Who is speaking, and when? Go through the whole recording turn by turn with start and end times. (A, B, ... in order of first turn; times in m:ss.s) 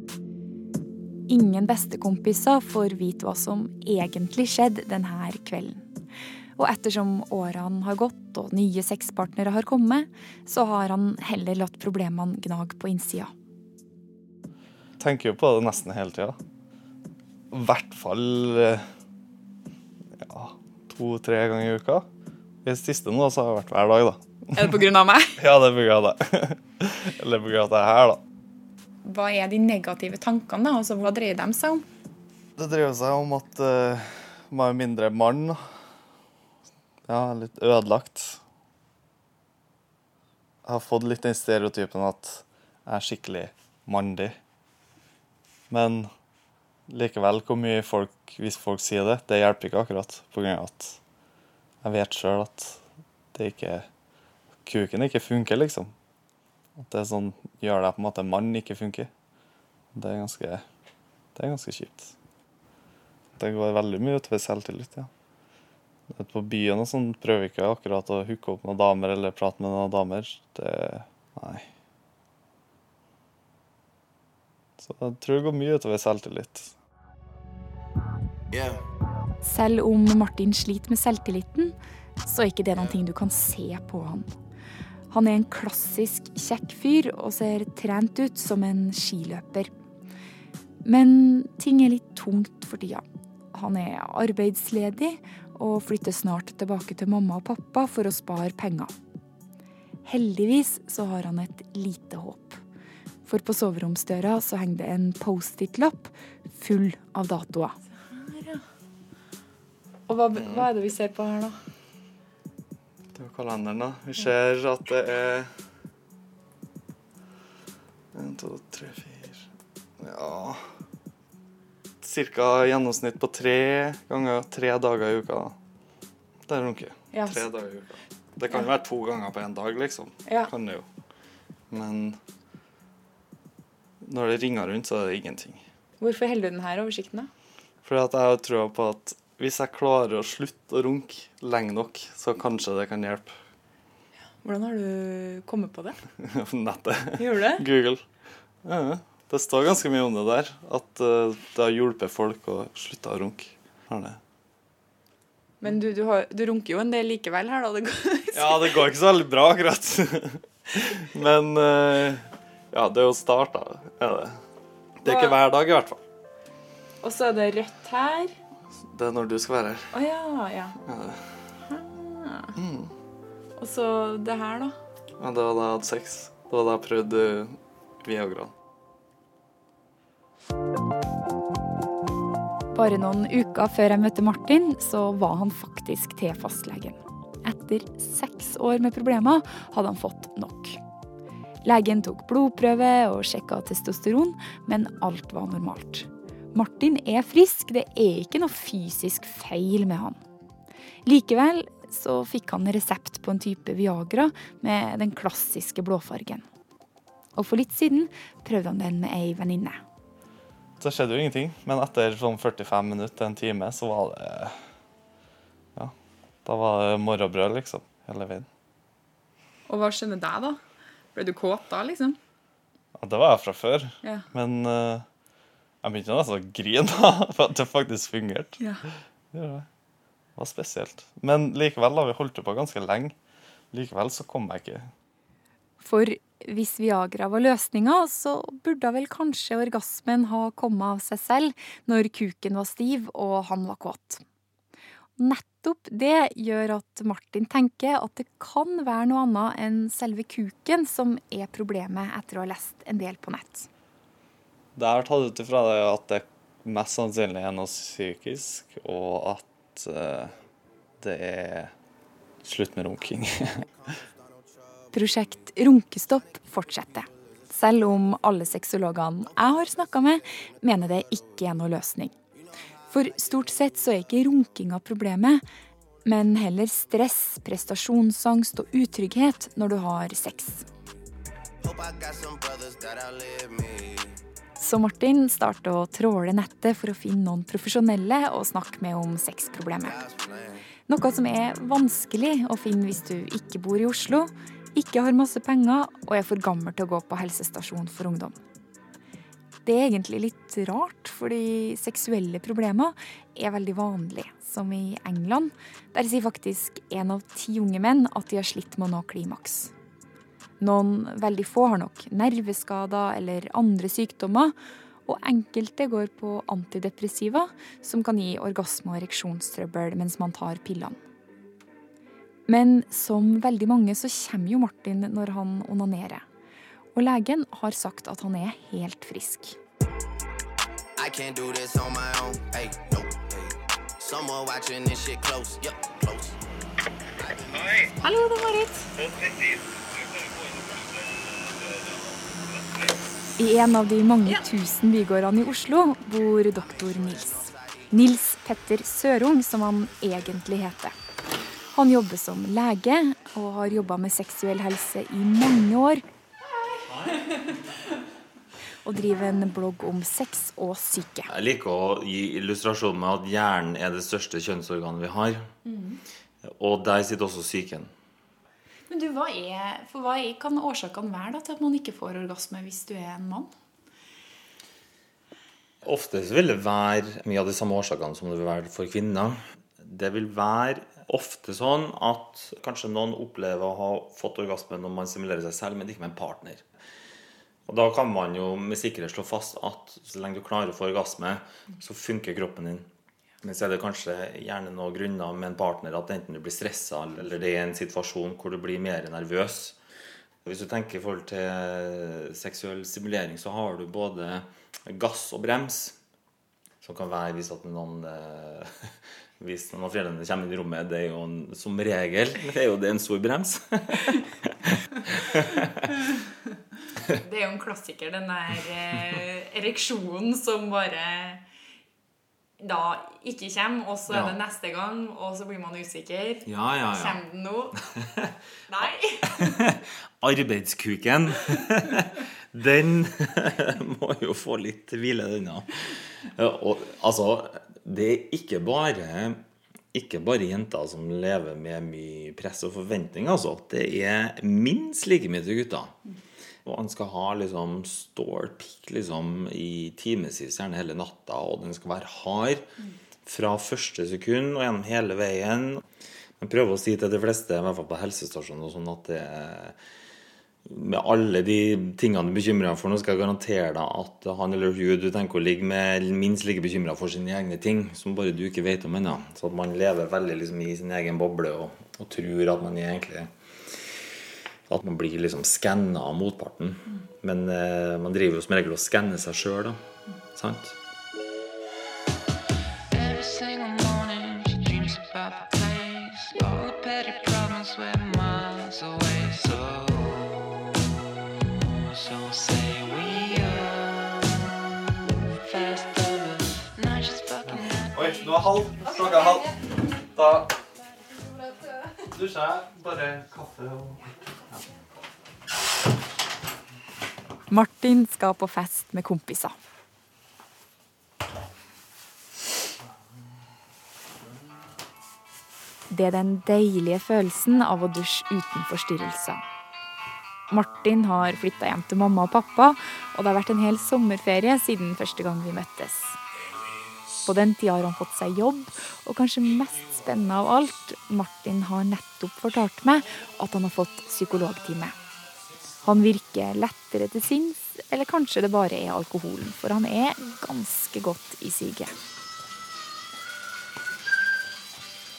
0:01.3-0:05.9 A
0:06.6-0:13.3 A
0:15.0-0:16.4 B
0:17.5-0:18.8 B
0:20.2-0:22.1 B
0:22.6-0:24.7 B
0:24.5-0:25.4 A
0:25.4-0:28.2 B
0:29.0-0:31.9 A
0:32.6-0:35.6 B
0:37.1-0:38.4 B
0:40.6-0:44.4 B
0:45.7-0:46.1 B
0:46.9-0:51.0 B
0:51.8-0:52.8 B
0:53.3-0:53.9 B
0:54.6-0:55.9 B
0:56.8-0:59.1 B
0:59.9-1:00.6 B
1:01.4-1:02.1 B
1:03.4-1:05.1 B
1:06.1-1:11.7 B
1:14.8-1:16.7 B
1:18.5-1:18.8 C
1:19.4-1:24.3 A
1:25.1-1:29.7 A
1:30.8-1:38.9 A
1:40.1-1:42.6 A
1:43.2-1:48.6 A
1:50.1-1:51.6 A
1:50.4-1:50.7 B
1:53.1-1:55.5 B
1:58.1-1:59.5 B
2:00.0-2:00.6 B
2:02.0-2:05.6 B
2:06.5-2:10.9 B
2:07.1-2:07.5 A
2:11.7-2:12.2 B
2:14.0-2:15.6 B
2:16.0-2:17.3 A
2:17.8-2:23.4 B
2:24.4-2:26.0 A
2:26.2-2:28.0 B
2:27.2-2:27.6 A
2:28.6-2:34.2 B
2:35.6-2:38.9 A
2:38.3-2:44.4 B
2:45.0-2:46.0 B
2:45.0-2:45.4 A
2:47.0-2:48.3 A
2:48.9-2:49.9 B
2:49.9-2:50.8 A
2:50.9-2:51.2 B
2:51.7-2:52.6 A
2:52.6-2:52.9 B
2:53.6-2:54.8 A
2:55.2-2:58.5 B
3:02.7-3:10.8 A
3:11.6-3:20.2 A
3:21.1-3:26.4 A
3:27.4-3:29.8 A
3:30.8-3:34.6 B
3:36.4-3:38.5 B
3:39.7-3:40.6 A
3:41.1-3:42.2 A
3:43.0-3:45.0 B
3:45.8-3:48.6 B
3:49.3-3:49.7 B
3:50.4-3:53.2 B
3:53.7-3:54.9 B
3:55.8-4:04.2 A
4:05.2-4:13.7 A
4:14.8-4:20.4 B
4:21.0-4:21.7 B
4:22.4-4:23.7 B
4:24.9-4:32.2 A
4:32.9-4:35.4 A
4:36.1-4:40.7 A
4:41.6-4:44.2 C
4:44.6-4:50.0 A
4:49.8-4:50.6 C
4:50.9-4:58.4 A
4:59.6-5:09.7 A
5:10.6-5:14.5 A
5:15.1-5:21.0 A
5:22.5-5:26.2 A
5:27.0-5:29.6 A
5:31.0-5:36.4 C
5:37.2-5:37.9 C
5:38.0-5:38.9 A
5:43.4-5:51.0 A
5:47.2-5:47.8 C
5:51.7-5:56.0 A
5:58.8-6:01.3 A
6:01.3-6:05.5 D
6:05.7-6:06.0 A
6:06.4-6:07.9 D
6:08.9-6:13.5 A
6:15.8-6:26.6 D
6:27.7-6:32.9 D
6:33.4-6:39.8 D
6:40.4-6:46.0 D
6:46.8-6:54.5 D
6:57.2-7:01.4 A
7:02.6-7:07.8 A
7:04.1-7:04.4 D
7:06.5-7:07.2 D
7:08.0-7:08.2 D
7:08.7-7:09.6 A
7:09.3-7:19.4 D
7:19.9-7:26.0 D
7:26.6-7:32.7 D
7:33.3-7:35.8 D
7:36.4-7:39.8 D
7:40.7-7:54.0 D
7:54.7-7:59.8 D
8:00.4-8:00.8 D
8:02.9-8:10.7 E
8:11.5-8:14.2 E
8:15.3-8:18.6 E
8:17.5-8:19.6 B
8:20.1-8:20.5 B
8:22.1-8:24.6 B
8:27.5-8:29.6 A
8:35.9-8:39.4 A
8:40.5-8:46.2 A
8:47.2-8:55.0 A
8:55.8-9:01.9 A